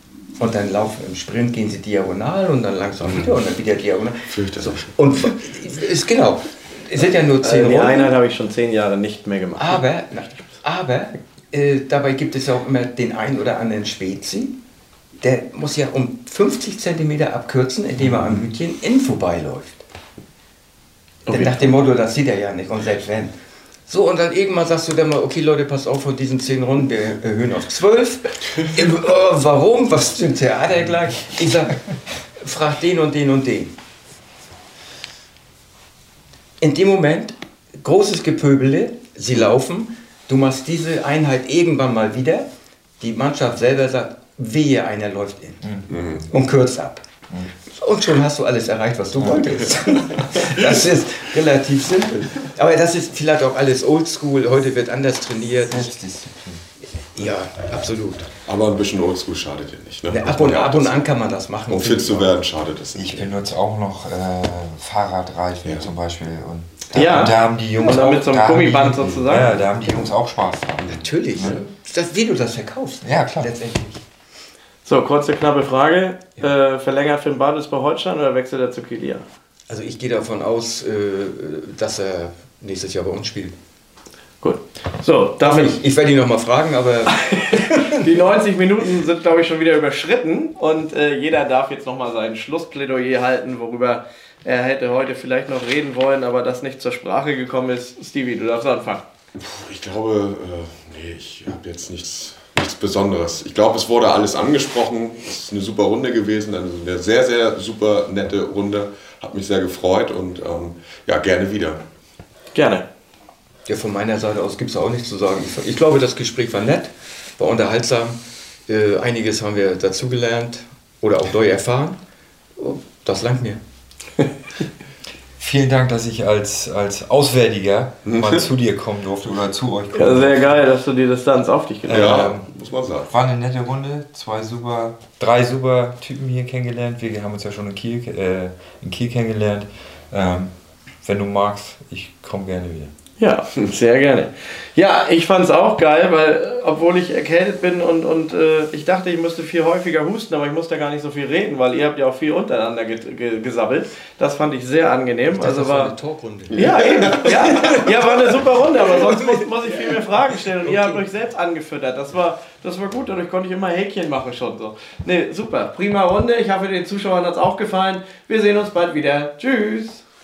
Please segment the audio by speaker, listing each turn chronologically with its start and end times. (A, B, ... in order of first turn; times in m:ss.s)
0:00.4-0:08.1 A
0:03.0-0:03.3 B
0:04.3-0:04.9 B
0:07.4-0:09.8 C
0:09.6-0:14.6 A
0:15.2-0:19.8 A
0:21.3-0:21.7 C
0:21.3-0:23.3 A
0:23.9-0:31.8 A
0:32.4-0:33.7 A
0:36.6-0:42.5 A
0:43.0-0:45.7 A
0:45.6-0:46.2 D
0:45.9-0:46.2 B
0:46.3-0:47.0 A
0:47.6-0:55.9 A
0:49.5-0:50.6 B
0:55.7-0:56.6 D
0:57.1-0:58.3 A
0:58.5-1:01.0 B
1:00.1-1:02.4 A
1:01.7-1:03.3 B
1:03.0-1:11.6 D
1:06.9-1:09.6 C
1:10.9-1:14.0 A
1:13.0-1:13.5 D
1:14.8-1:19.2 C
1:19.7-1:23.6 A
1:24.4-1:25.8 C
1:25.4-1:28.0 A
1:27.1-1:39.0 C
1:39.4-1:51.8 B
1:52.5-1:52.8 C
1:53.7-2:02.0 A
2:02.6-2:03.6 A
2:05.4-2:10.6 D
2:08.1-2:08.4 B
2:09.9-2:12.3 C
2:11.9-2:13.1 B
2:11.9-2:12.5 D
2:13.1-2:20.5 D
2:21.0-2:22.9 D
2:23.2-2:35.9 C
2:35.3-2:38.2 A
2:36.5-2:37.7 B
2:36.5-2:50.0 C
2:38.9-2:40.0 A
2:40.6-2:41.0 A